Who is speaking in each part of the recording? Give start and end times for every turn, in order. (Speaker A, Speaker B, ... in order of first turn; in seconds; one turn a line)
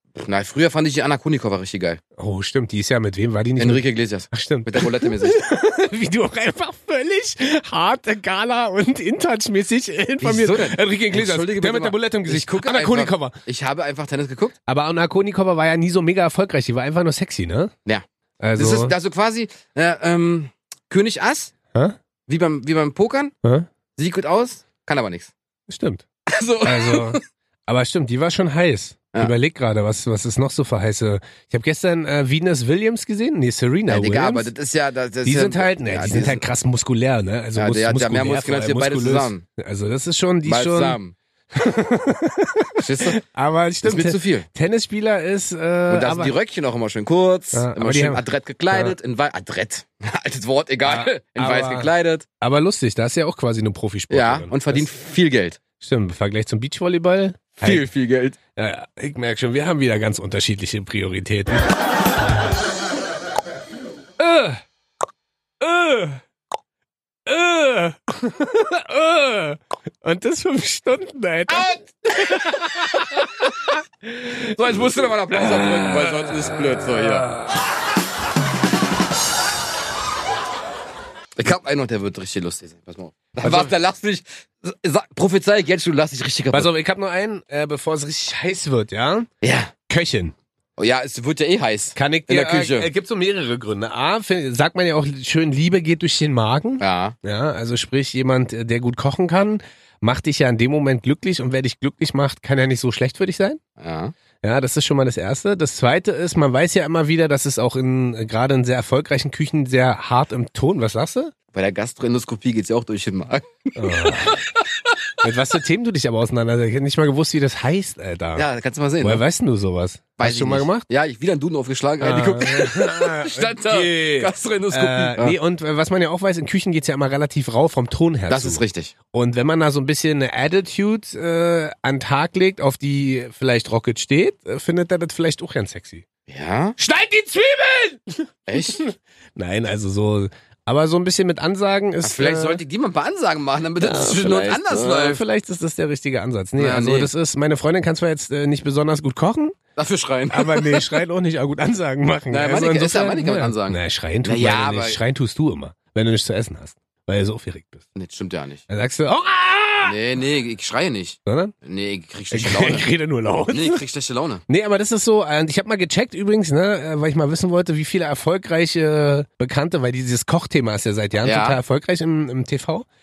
Speaker A: 0.1-2.0
Speaker B: 2.2-13.4
Speaker A: 3.6-5.4
Speaker A: 10.2-14.6
Speaker B: 14.7-17.7
Speaker B: 18.4-18.9
Speaker A: 18.6-21.5
Speaker A: 22.3-23.3
Speaker A: 24.0-25.3
Speaker B: 25.7-26.0
Speaker A: 26.3-27.2
Speaker B: 26.6-34.5
Speaker A: 33.9-36.5
Speaker B: 35.2-41.0
Speaker A: 37.5-39.4
Speaker A: 40.4-41.1
Speaker B: 41.5-46.3
Speaker A: 42.8-43.2
Speaker A: 43.8-44.5
Speaker A: 45.9-52.2
Speaker B: 47.5-48.9
Speaker B: 50.8-54.9
Speaker A: 54.1-55.6
Speaker B: 55.8-57.9
Speaker A: 57.6-58.4
Speaker B: 58.5-61.7
Speaker B: 64.2-64.6
Speaker B: 65.6-66.2
Speaker B: 67.2-77.6
Speaker A: 71.5-73.3
Speaker A: 74.5-77.3
Speaker A: 81.4-86.7
Speaker B: 83.4-83.7
Speaker B: 86.5-89.3
Speaker A: 89.4-89.7
Speaker B: 89.9-90.3
Speaker A: 90.8-92.9
Speaker B: 91.9-103.6
Speaker A: 96.8-97.2
Speaker A: 103.8-104.1
Speaker B: 104.4-111.3
Speaker A: 111.5-114.9
Speaker B: 113.8-114.4
Speaker B: 115.2-118.5
Speaker A: 118.3-119.2
Speaker B: 119.0-120.9
Speaker A: 120.2-125.3
Speaker B: 122.0-136.0
Speaker A: 128.3-128.9
Speaker A: 136.3-136.8
Speaker B: 136.8-142.6
Speaker A: 138.5-138.8
Speaker A: 142.0-145.2
Speaker B: 143.8-149.6
Speaker A: 146.6-147.1
Speaker A: 149.8-150.9
Speaker B: 150.3-157.8
Speaker A: 152.3-155.0
Speaker A: 157.9-158.6
Speaker B: 158.7-160.0
Speaker A: 159.8-162.9
Speaker B: 161.2-161.5
Speaker B: 162.3-163.8
Speaker A: 163.5-164.4
Speaker B: 164.5-172.8
Speaker A: 171.2-171.6